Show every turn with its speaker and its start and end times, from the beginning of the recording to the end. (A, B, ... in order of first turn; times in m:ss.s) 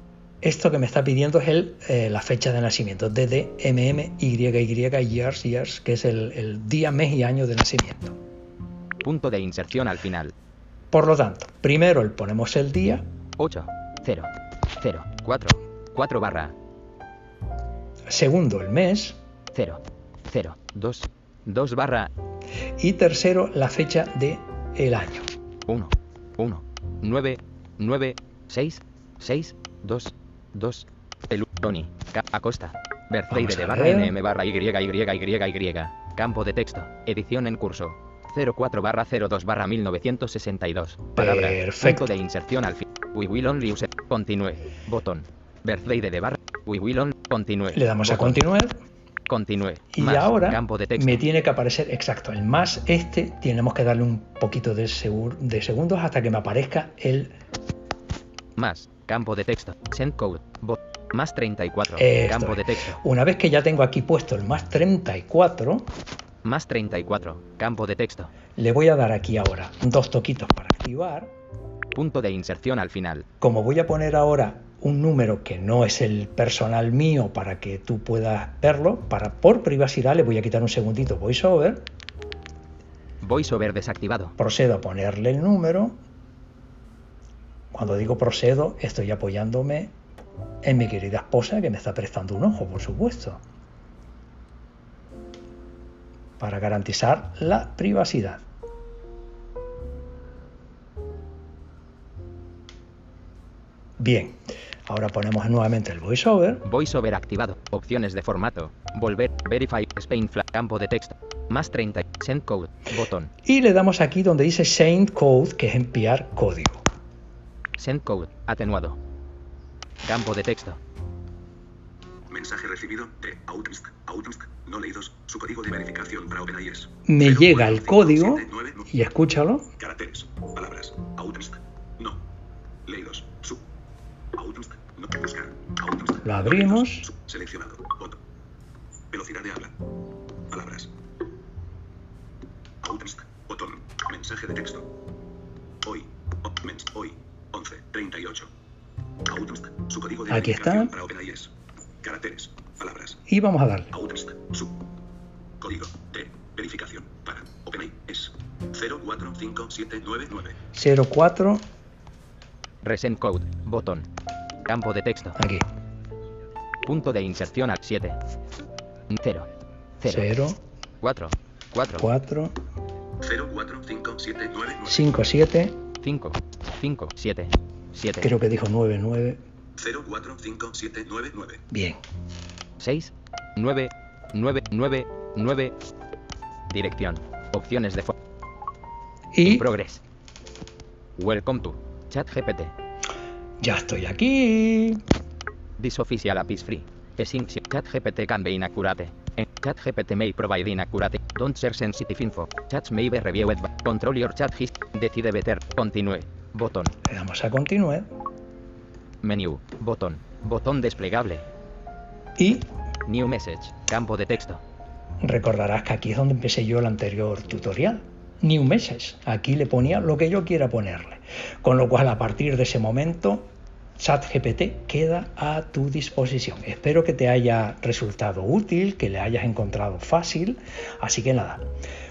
0:00.4-0:08.2 A
0:09.0-0:10.3 B
0:10.9-0:13.0 A
0:13.4-0:16.5 B
0:18.1-0:19.2 A
0:19.5-0:22.1 B
0:22.8-0:25.3 A
0:25.7-0:48.4 B
0:33.3-0:34.2 A
0:41.2-0:42.1 A
0:47.7-0:48.7 A
0:49.3-0:51.2 B
0:49.9-0:57.4 A
0:58.6-1:03.0 B
1:02.0-1:05.9 A
1:06.4-1:08.3 B
1:08.6-1:11.3 A
1:11.9-1:13.2 B
1:13.4-1:21.9 A
1:23.2-1:24.3 B
1:24.4-1:26.0 A
1:27.7-1:29.9 A
1:30.6-1:33.4 A
1:36.4-1:38.4 A
1:44.0-1:46.6 A
1:46.6-1:53.3 B
1:53.4-1:56.8 A
1:57.8-1:59.0 B
2:00.0-2:00.8 B
2:02.3-2:08.8 C
2:07.0-2:09.7 A
2:09.8-2:12.2 C
2:12.8-2:13.6 C
2:14.3-2:18.2 C
2:16.2-2:17.1 A
2:19.1-2:19.8 C
2:20.5-2:20.9 C
2:22.8-2:24.9 C
2:25.8-2:28.5 C
2:29.2-2:31.5 C
2:30.3-2:30.9 A
2:32.0-2:33.2 C
2:33.3-2:33.9 A
2:33.9-2:34.7 C
2:35.6-2:40.5 C
2:40.7-2:41.6 A
2:42.8-2:44.1 B
2:44.6-2:45.4 B
2:45.4-2:45.6 A
2:46.8-2:48.2 B
2:49.1-2:49.5 B
2:50.0-2:50.3 B
2:50.0-2:50.6 A
2:51.0-2:52.1 B
2:52.0-2:52.6 A
2:53.2-2:55.0 C
2:54.8-2:55.8 A
2:56.0-2:58.3 B
2:58.2-2:59.4 A
2:59.8-3:01.6 C
3:01.7-3:02.0 A
3:02.8-3:05.7 B
3:06.7-3:08.1 B
3:09.3-3:09.7 A
3:09.4-3:10.0 B
3:11.2-3:12.7 B
3:13.6-3:15.0 A
3:15.8-3:26.9 B
3:27.0-3:28.1 A
3:29.2-3:31.4 B
3:32.4-3:32.7 A
3:33.0-3:34.6 B
3:35.2-3:51.6 A